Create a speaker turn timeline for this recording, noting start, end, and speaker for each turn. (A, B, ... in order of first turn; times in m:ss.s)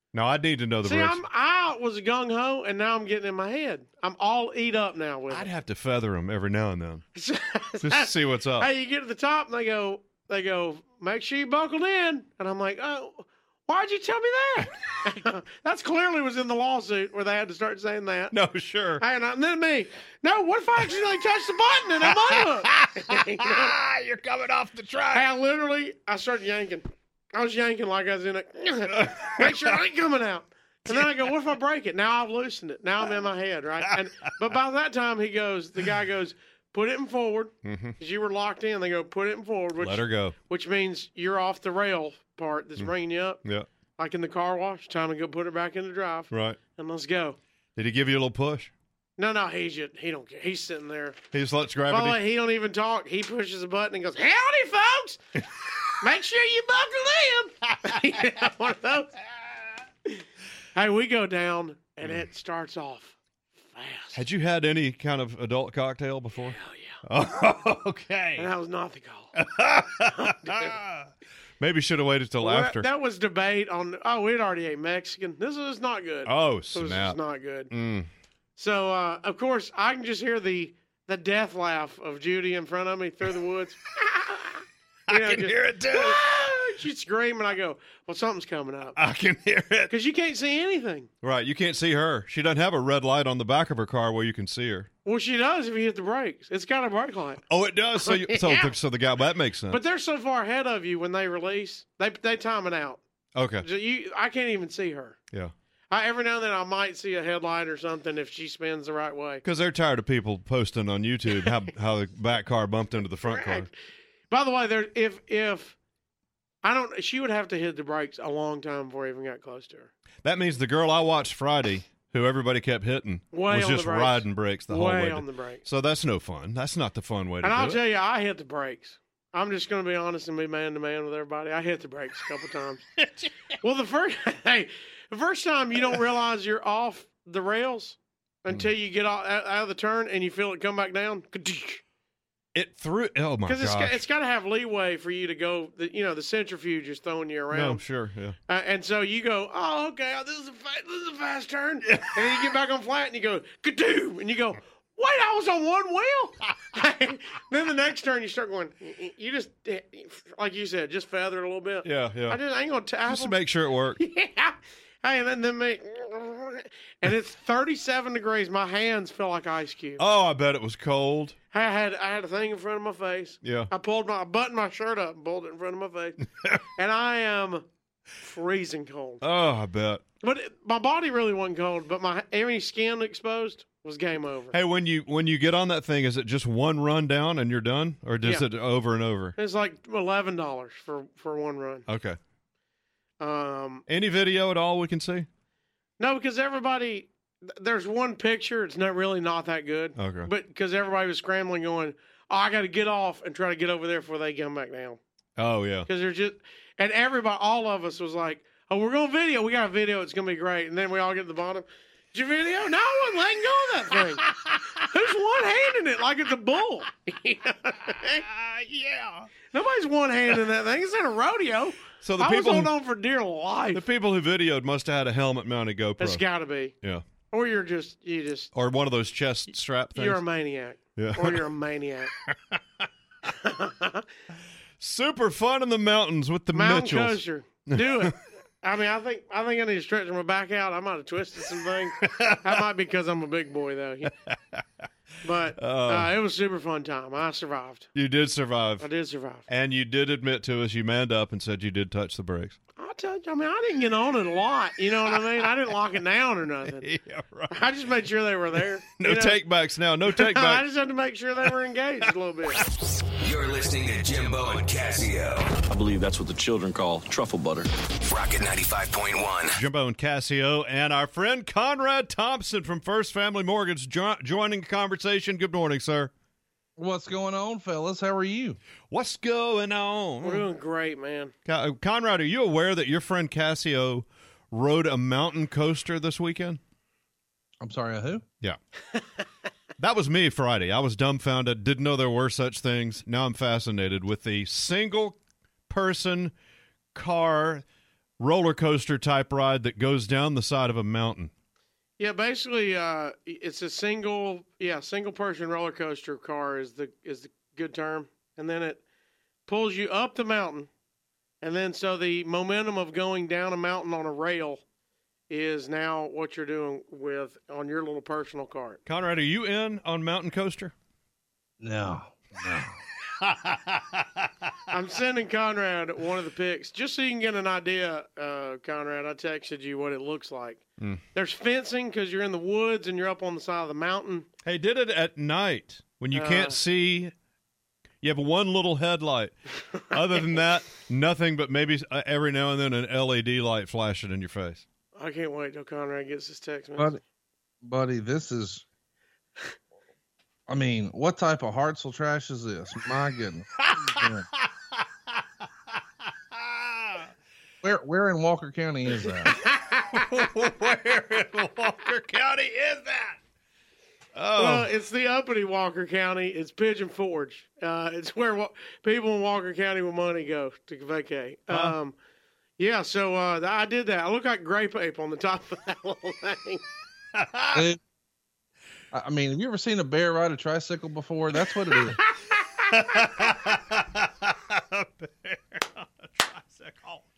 0:00.1-0:01.2 A
0:00.8-0:05.5 B
0:05.3-0:07.0 A
0:07.2-0:18.3 B
0:07.8-0:08.7 A
0:18.3-0:19.0 A
0:19.0-0:23.8 B
0:22.3-0:25.2 A
0:25.1-0:43.4 B
0:29.0-0:29.8 A
0:33.9-0:34.3 A
0:37.6-0:38.0 A
0:39.8-0:40.4 A
0:44.0-0:47.4 B
0:46.3-0:46.6 A
0:47.8-0:48.7 A
0:49.2-0:51.2 B
0:51.3-0:52.2 A
0:51.9-0:55.2 B
0:56.0-0:59.1 B
1:00.8-1:03.2 B
1:03.7-1:04.2 B
1:04.2-1:08.5 A
1:06.6-1:07.0 B
1:08.4-1:09.3 B
1:09.4-1:12.9 A
1:10.2-1:10.7 B
1:12.4-1:17.7 B
1:16.3-1:17.2 A
1:17.7-1:18.1 A
1:18.6-1:29.0 B
1:25.1-1:26.2 A
1:29.0-1:29.9 A
1:29.9-1:31.1 B
1:31.2-1:34.9 A
1:35.0-1:37.4 B
1:37.5-1:39.8 A
1:38.0-1:38.7 B
1:39.7-1:43.0 B
1:43.4-1:43.7 A
1:43.6-1:45.2 B
1:45.9-1:49.4 B
1:49.4-1:53.7 A
1:53.2-1:53.7 B
1:54.3-1:55.8 B
1:56.6-1:59.9 B
2:00.2-2:07.8 A
2:03.3-2:05.6 B
2:07.4-2:12.8 B
2:13.0-2:13.3 A
2:13.6-2:21.8 B
2:22.6-2:24.0 A
2:23.5-2:27.8 B
2:27.5-2:28.4 A
2:28.5-2:43.4 B
2:31.9-2:32.2 A
2:41.8-2:42.4 A
2:43.1-2:44.0 A
2:44.0-2:50.0 B
2:50.0-2:51.4 A
2:51.5-2:56.2 B
2:53.4-2:53.7 A
2:56.8-2:57.6 B
2:58.2-2:59.2 B
2:59.2-3:00.0 A
3:00.2-3:04.6 B
3:04.5-3:09.4 A
3:09.4-3:11.8 B
3:11.9-3:12.2 A
3:13.2-3:13.8 B
3:13.9-3:15.3 A
3:16.0-3:25.0 B
3:20.0-3:20.3 A
3:25.4-3:25.9 A
3:25.9-3:38.2 B
3:34.2-3:34.8 A
3:38.2-3:39.3 A
3:39.5-3:43.8 B
3:42.0-3:42.7 A
3:43.7-3:46.2 A
3:46.0-3:46.7 B
3:47.3-3:48.5 B
3:48.6-3:50.2 A
3:50.0-3:52.1 B
3:51.0-3:51.4 A
3:52.3-3:52.6 A
3:53.3-3:54.0 B
3:54.8-3:58.2 A
3:56.5-4:04.1 B
4:02.0-4:02.4 A
4:04.3-4:04.6 A
4:05.2-4:07.9 B
4:05.6-4:06.1 A
4:08.0-4:08.9 A
4:08.8-4:09.5 B
4:09.5-4:12.6 A
4:12.8-4:16.9 B
4:16.8-4:17.5 A
4:17.5-4:19.4 B
4:19.0-4:20.6 A
4:20.1-4:22.6 B
4:23.2-4:25.6 C
4:25.7-4:27.7 D
4:28.1-4:29.5 C
4:29.6-4:36.1 A
4:36.8-4:38.6 E
4:38.9-4:40.4 A
4:40.2-4:41.3 B
4:41.5-4:46.6 A
4:47.6-4:48.2 E
4:49.8-4:55.2 A
4:55.7-4:56.3 A
4:57.0-4:57.6 A
4:58.2-5:01.3 A
5:02.0-5:08.8 B
5:09.5-5:10.7 B
5:11.4-5:14.6 B
5:15.3-5:18.8 B
5:18.9-5:20.7 A
5:21.6-5:22.8 E
5:23.2-5:24.3 A
5:24.7-5:30.6 B
5:31.1-5:34.3 B
5:34.4-5:37.1 A
5:36.1-5:36.6 B
5:38.0-5:39.4 A
5:39.9-5:44.6 A
5:45.0-5:47.0 B
5:47.6-5:48.6 E
5:50.5-5:54.2 E
5:56.4-5:57.1 A
5:57.6-5:59.4 E
5:59.9-6:03.2 A
6:04.2-6:04.7 A
6:04.4-6:12.0 B
6:12.6-6:16.6 B
6:17.2-6:17.6 A
6:18.9-6:22.0 E
6:22.7-6:27.0 A